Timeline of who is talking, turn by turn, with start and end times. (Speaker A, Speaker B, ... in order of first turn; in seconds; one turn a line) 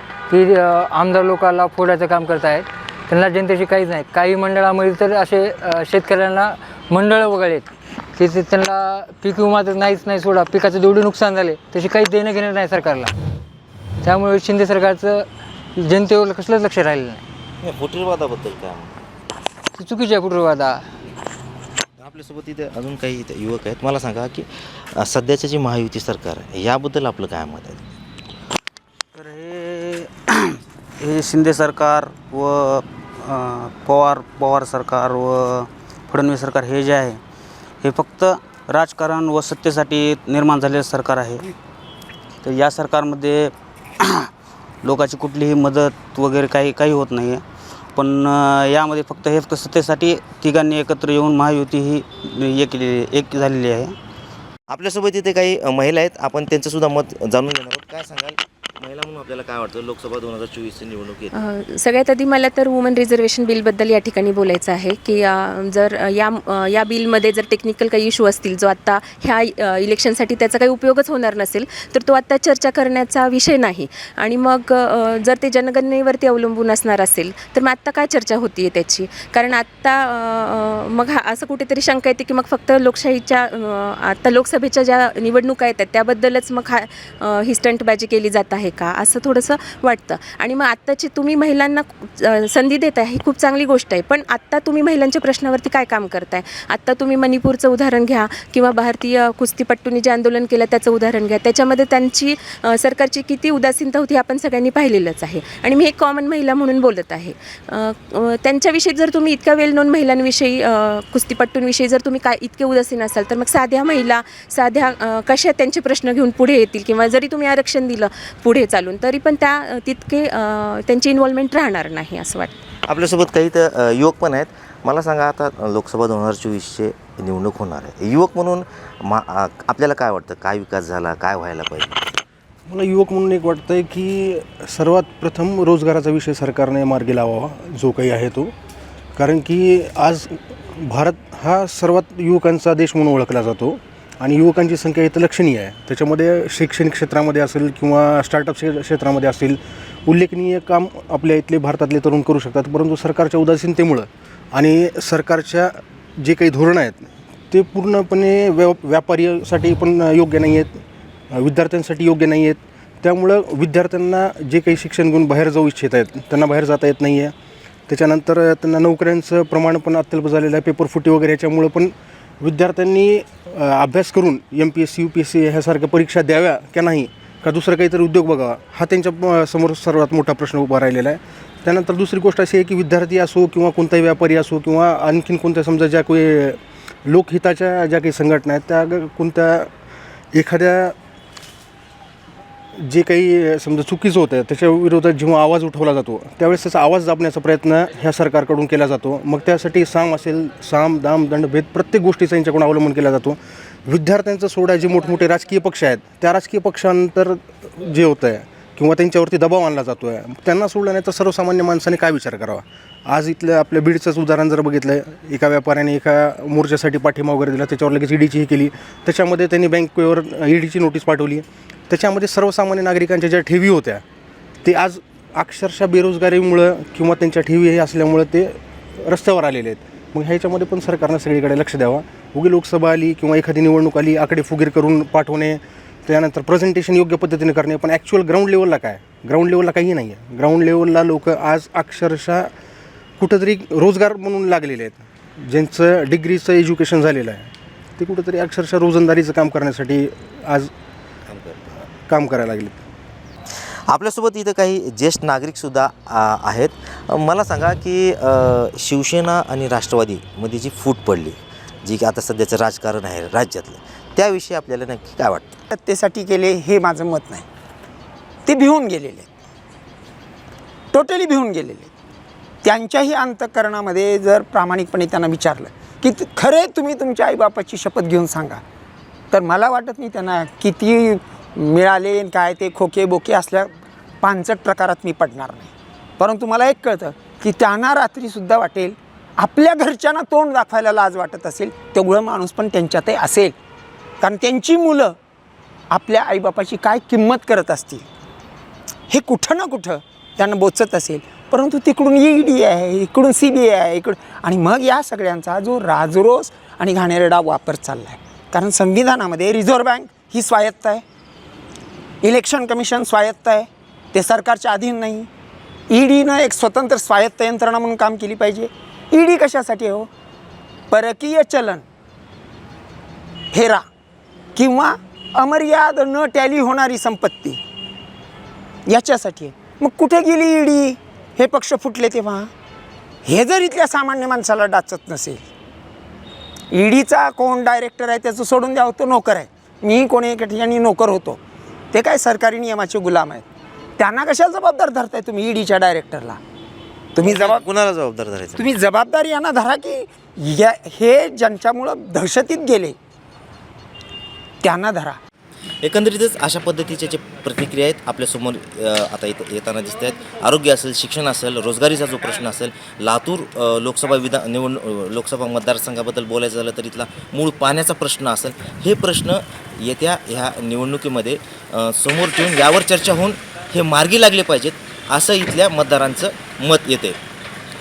Speaker A: 0.3-13.1
Speaker A: 14.0-15.2
Speaker A: 15.8-17.2
Speaker B: 17.6-19.0
Speaker A: 19.8-20.8
Speaker B: 22.0-27.8
Speaker C: 29.1-30.3
Speaker C: 31.0-37.2
Speaker C: 37.8-41.5
Speaker C: 42.4-43.5
Speaker C: 44.8-47.4
Speaker C: 47.9-54.0
Speaker B: 54.7-61.3
Speaker D: 61.3-122.6
Speaker B: 122.8-131.9
Speaker E: 132.7-138.5
Speaker E: 139.2-167.3
Speaker E: 167.9-189.7
Speaker E: 190.3-190.9
Speaker E: 192.8-224.0
Speaker E: 224.6-242.5
Speaker E: 243.2-250.7
Speaker B: 251.3-251.6
Speaker E: 252.0-252.8
Speaker B: 253.9-265.6
Speaker F: 265.7-267.4
Speaker F: 268.4-269.3
Speaker F: 270.9-271.9
Speaker F: 272.6-278.6
Speaker F: 279.3-293.5
Speaker F: 294.2-295.1
Speaker F: 295.9-298.1
Speaker F: 299.1-311.0
Speaker F: 312.2-315.3
Speaker F: 315.9-320.1
Speaker F: 320.9-321.8
Speaker F: 323.5-323.8
Speaker F: 324.6-327.6
Speaker F: 328.9-332.5
Speaker F: 333.2-335.4
Speaker F: 336.7-341.4
Speaker F: 341.9-343.4
Speaker F: 344.0-346.4
Speaker F: 347.1-347.6
Speaker B: 347.2-348.6
Speaker F: 348.6-352.9
Speaker F: 354.6-355.2
Speaker B: 355.8-377.2